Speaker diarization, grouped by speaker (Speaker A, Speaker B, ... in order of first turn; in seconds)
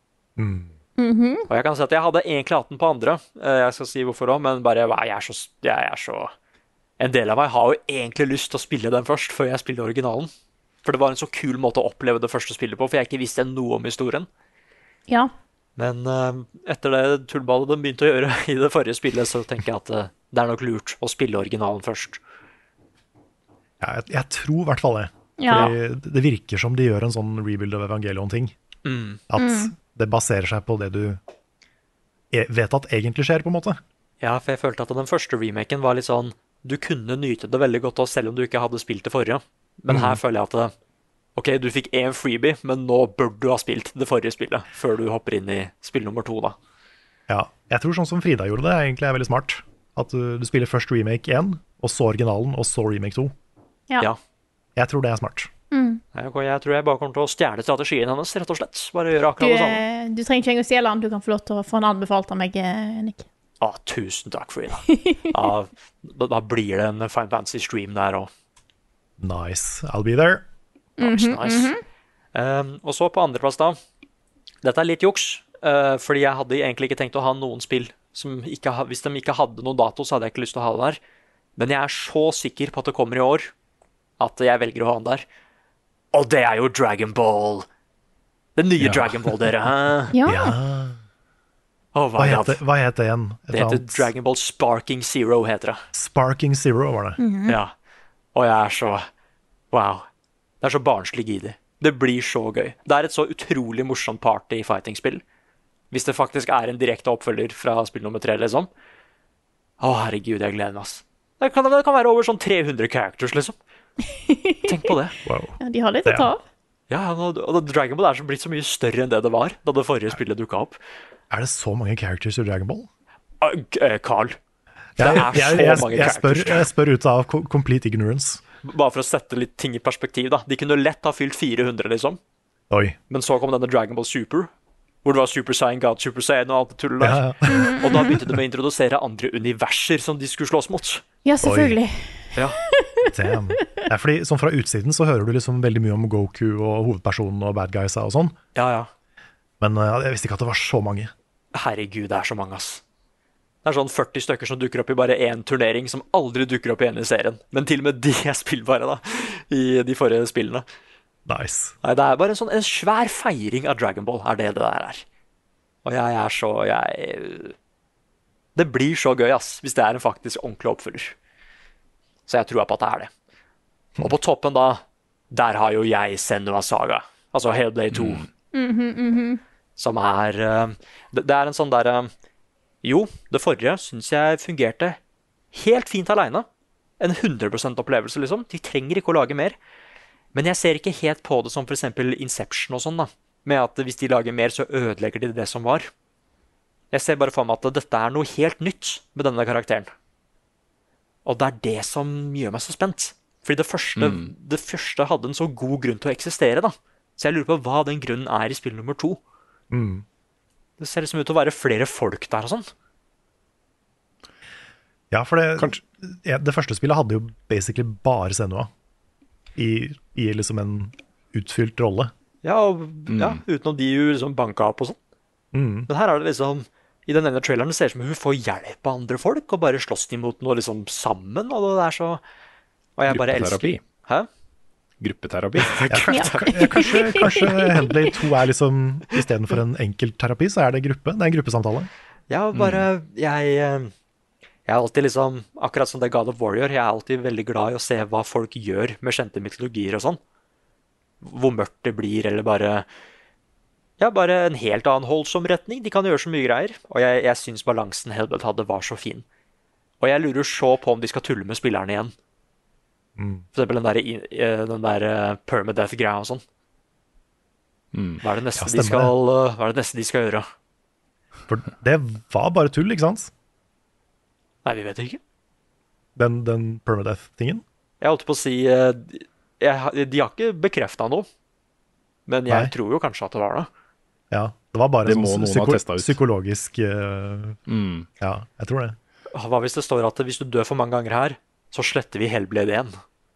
Speaker A: 0.4-0.7, 23.8-28.6, 29.3-31.2, 32.3-33.8, 39.9-40.2, 47.3-53.3, 54.8-55.5, 69.2-70.5, 88.8-89.2, 90.2-91.0, 92.2-94.1, 95.9-97.2, 115.2-116.3, 121.3-122.9, 125.0-128.4, 132.7-133.0, 137.0-138.4, 141.4-141.8, 143.1-148.4, 149.6-151.1, 161.3-161.8, 209.7-210.1, 215.1-218.7, 219.6-222.1, 225.5-225.9, 235.9-241.9, 263.2-263.5, 268.6-269.1, 271.5-273.3, 276.2-277.6, 282.5-282.7, 284.3-287.6, 288.2-289.0
Speaker B: 1.0-1.5, 25.4-25.7, 29.4-29.7, 55.7-56.0, 59.4-63.2, 64.9-65.3, 71.0-71.8, 90.1-90.6, 97.2-97.6, 114.1-114.9, 115.6-116.4, 137.5-138.1, 141.2-143.1, 178.5-179.4, 236.1-238.1
Speaker C: 1.5-6.3, 7.0-10.3, 10.8-14.3, 15.8-22.2, 25.5-25.8, 28.9-29.2, 34.2-40.7, 41.4-46.6, 56.1-59.8, 63.6-68.3, 71.0-71.7, 72.3-73.8, 74.6-81.0, 81.6-83.5, 84.2-85.2, 86.1-87.7, 88.6-90.1, 92.0-92.6, 93.5-95.8, 97.5-97.7, 98.3-99.1, 99.7-100.1, 100.6-105.2, 105.9-108.7, 109.8-113.6, 114.7-115.2, 116.9-120.8, 123.4-124.4, 125.0-126.7, 128.6-132.2, 133.1-134.5, 135.1-141.0, 148.6-148.9, 151.5-152.8, 153.7-160.7, 161.8-165.0, 165.8-167.6, 168.6-171.2, 172.3-173.1, 174.0-178.2, 179.8-182.1, 182.8-185.0, 185.5-186.5, 187.0-189.6, 190.3-195.9, 196.9-199.9, 201.2-209.2, 210.8-212.7, 222.4-225.0, 225.9-232.2, 233.0-234.3, 235.6-237.3, 242.3-243.9, 244.7-250.2, 251.2-252.9, 254.0-259.2, 260.0-262.1, 263.6-266.4, 268.2-270.5, 274.6-275.2, 278.0-281.3, 282.3-283.7, 289.3-292.9
Speaker D: 177.9-178.3, 204.0-204.3, 223.1-223.4, 233.1-233.8, 235.0-235.9, 242.6-242.9, 267.9-268.2, 285.1-286.2, 287.7-288.1